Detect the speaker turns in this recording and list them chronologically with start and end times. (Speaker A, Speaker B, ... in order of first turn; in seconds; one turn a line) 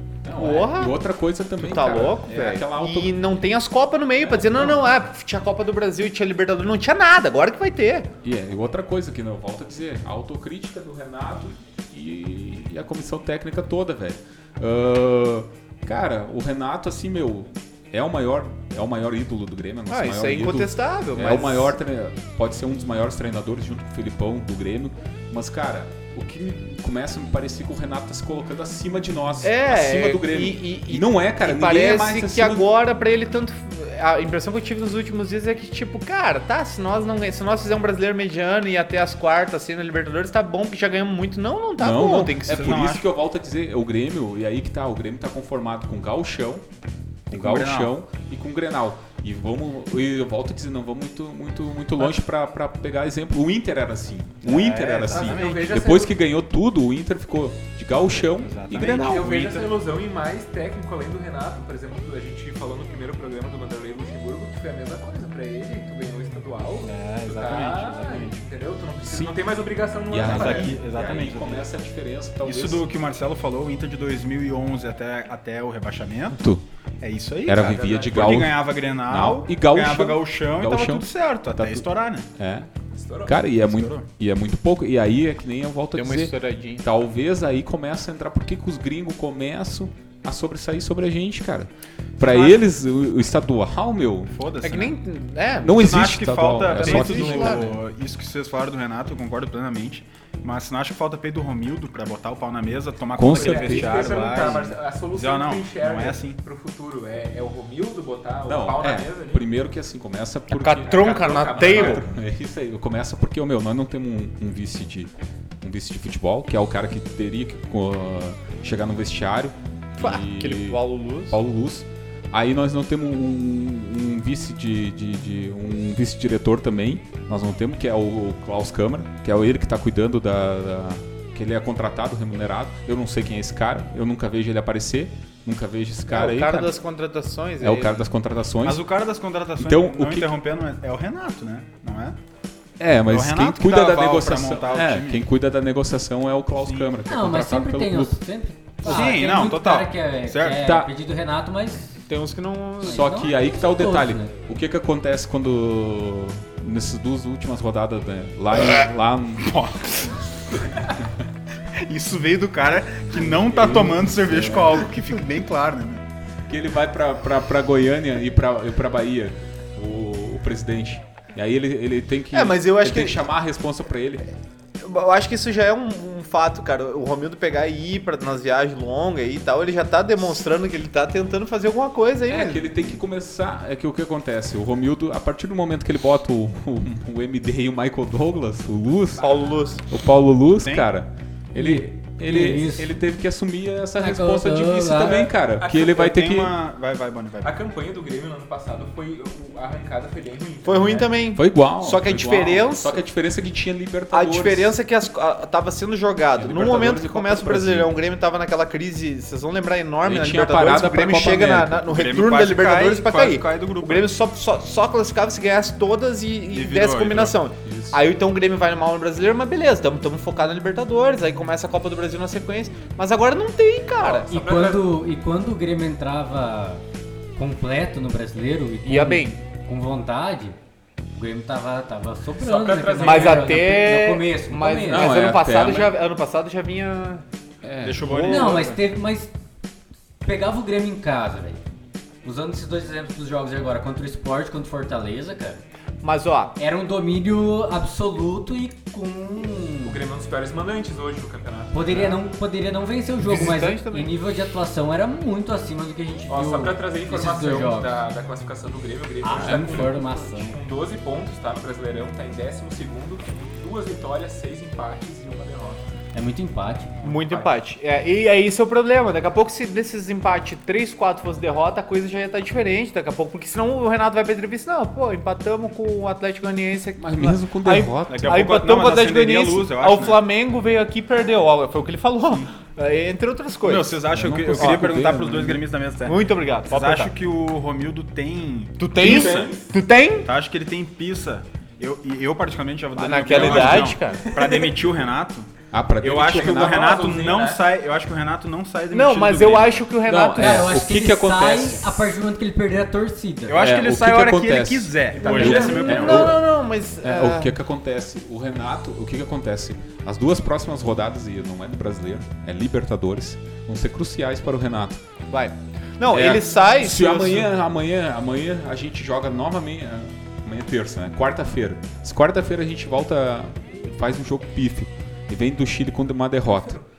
Speaker A: 0.2-3.2
Speaker B: 0.3-1.0
Speaker B: 1.6-8.1
Speaker A: 4.2-4.9
Speaker A: 8.2-32.7
Speaker B: 19.9-21.7
Speaker B: 29.4-42.9
Speaker A: 41.8-46.7
Speaker C: 42.5-43.0
Speaker A: 47.3-59.4
Speaker C: 47.3-47.9
Speaker C: 54.4-55.7
Speaker D: 55.1-56.2
Speaker C: 58.4-59.6
Speaker D: 58.9-70.8
Speaker C: 66.8-68.4
Speaker A: 69.0-69.4
Speaker A: 70.1-72.9
Speaker C: 70.2-71.7
Speaker C: 72.4-76.4
Speaker A: 76.3-76.7
Speaker C: 77.0-82.3
Speaker A: 77.5-82.7
Speaker D: 82.9-83.4
Speaker A: 83.3-94.4
Speaker C: 83.6-84.1
Speaker B: 85.9-86.9
Speaker B: 92.2-92.6
Speaker C: 94.3-95.0
Speaker B: 94.6-95.8
Speaker A: 95.6-97.8
Speaker C: 95.7-106.4
Speaker B: 96.7-97.7
Speaker A: 103.2-104.5
Speaker D: 103.3-109.5
Speaker A: 108.5-136.8
Speaker B: 110.5-112.0
Speaker D: 110.9-112.0
Speaker B: 120.0-121.4
Speaker B: 136.1-138.1
Speaker A: 137.6-138.8
Speaker C: 138.6-142.2
Speaker A: 139.6-140.4
Speaker A: 142.8-148.2
Speaker C: 143.1-145.3
Speaker C: 146.6-146.9
Speaker E: 147.1-151.9
Speaker C: 148.8-150.6
Speaker A: 150.6-150.9
Speaker B: 152.1-153.1
Speaker A: 152.8-159.6
Speaker E: 152.8-154.3
Speaker C: 159.4-160.2
Speaker C: 161.8-166.0
Speaker A: 163.2-164.9
Speaker A: 166.5-174.3
Speaker B: 172.3-173.2
Speaker B: 174.8-182.9
Speaker A: 182.3-189.3
Speaker D: 189.2-189.6
Speaker B: 189.2-189.8
Speaker A: 189.9-196.6
Speaker C: 190.6-190.9
Speaker E: 191.6-192.9
Speaker E: 194.0-195.3
Speaker D: 195.1-196.0
Speaker C: 195.8-197.5
Speaker D: 197.4-201.1
Speaker B: 200.7-203.0
Speaker A: 201.3-204.7
Speaker B: 204.1-224.3
Speaker A: 206.3-207.9
Speaker A: 210.0-211.9
Speaker C: 211.9-214.1
Speaker C: 216.5-217.4
Speaker A: 217.7-218.0
Speaker D: 224.0-224.9
Speaker E: 224.3-226.8
Speaker E: 227.4-230.6
Speaker B: 228.8-229.4
Speaker E: 231.2-235.2
Speaker D: 232.4-233.7
Speaker B: 233.0-237.2
Speaker A: 234.9-236.0
Speaker A: 237.6-238.2
Speaker C: 237.8-238.8
Speaker B: 238.0-238.8
Speaker E: 238.2-239.3
Speaker E: 240.2-241.6
Speaker E: 242.2-245.6
Speaker B: 246.0-246.6
Speaker E: 246.6-250.0
Speaker D: 249.8-252.0
Speaker E: 251.7-258.0
Speaker B: 253.2-254.1
Speaker D: 256.3-265.8
Speaker E: 259.2-260.6
Speaker E: 266.1-267.2
Speaker B: 267.0-284.0
Speaker A: 277.0-278.5
Speaker C: 278.1-280.2
Speaker C: 283.6-289.4
Speaker A: 284.1-285.7
Speaker B: 284.6-284.9
Speaker B: 286.0-287.1
Speaker B: 288.8-290.3
Speaker D: 289.0-289.7
Speaker C: 290.2-295.5
Speaker B: 292.9-294.3
Speaker D: 293.3-294.8
Speaker A: 295.7-297.3
Speaker C: 296.0-299.8
Speaker D: 296.4-297.6
Speaker B: 298.9-300.8
Speaker A: 300.0-302.2
Speaker E: 300.3-303.7
Speaker C: 303.5-306.4
Speaker A: 303.6-306.4
Speaker D: 305.2-306.1
Speaker B: 305.2-307.5
Speaker A: 307.0-315.0
Speaker B: 315.3-317.5
Speaker A: 316.1-326.8